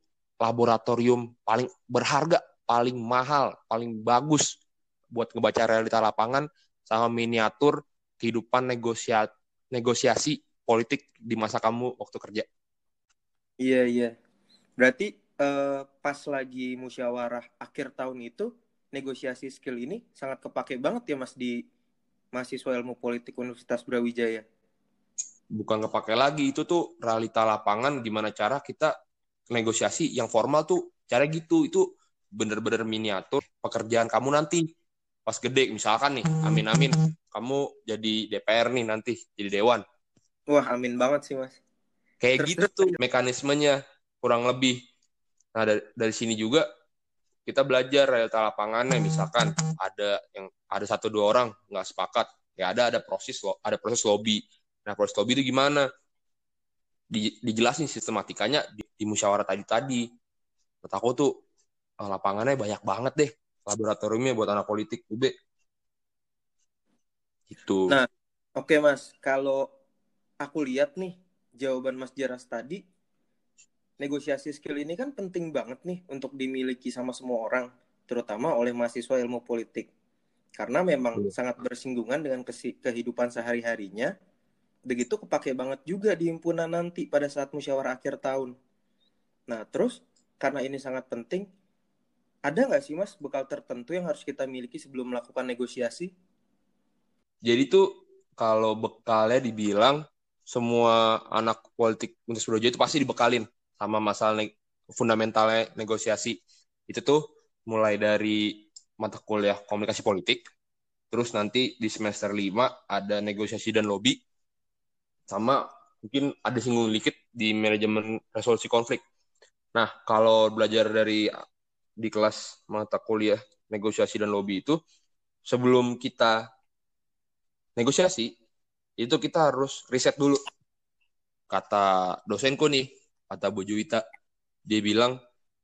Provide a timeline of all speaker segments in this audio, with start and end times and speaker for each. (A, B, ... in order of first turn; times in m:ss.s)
0:00.4-0:04.6 A
0:05.2-0:12.5 A
0:13.6-0:14.1 B
0:14.8-0:21.6 B
0:22.3-0:24.4 B
0:25.6-0:28.9 A
0:29.5-0:34.7 A
0:35.3-0:39.8 A
0:40.5-0:41.6 B
0:42.2-0:44.8 A
0:42.4-0:43.0 B
0:45.6-0:46.6 A
0:47.5-0:55.9 A
0:57.1-1:00.0 A
1:00.8-1:01.3 A
1:02.0-1:05.3 A
1:07.5-1:08.0 A
1:08.6-1:09.6 B
1:10.4-1:12.8 B
1:14.0-1:19.9 B
1:20.6-1:24.1 B
1:24.9-1:28.5 B
1:29.5-1:31.5 B
1:32.5-1:36.1 B
1:37.4-1:37.8 A
1:38.4-1:46.4 A
1:46.9-1:50.4 A
1:51.1-1:54.2 A
1:55.3-1:59.0 A
1:59.8-2:01.3 A
2:02.0-2:04.8 A
2:05.5-2:06.4 A
2:07.8-2:08.3 A
2:09.0-2:10.4 A
2:11.5-2:14.0 A
2:14.7-2:15.2 A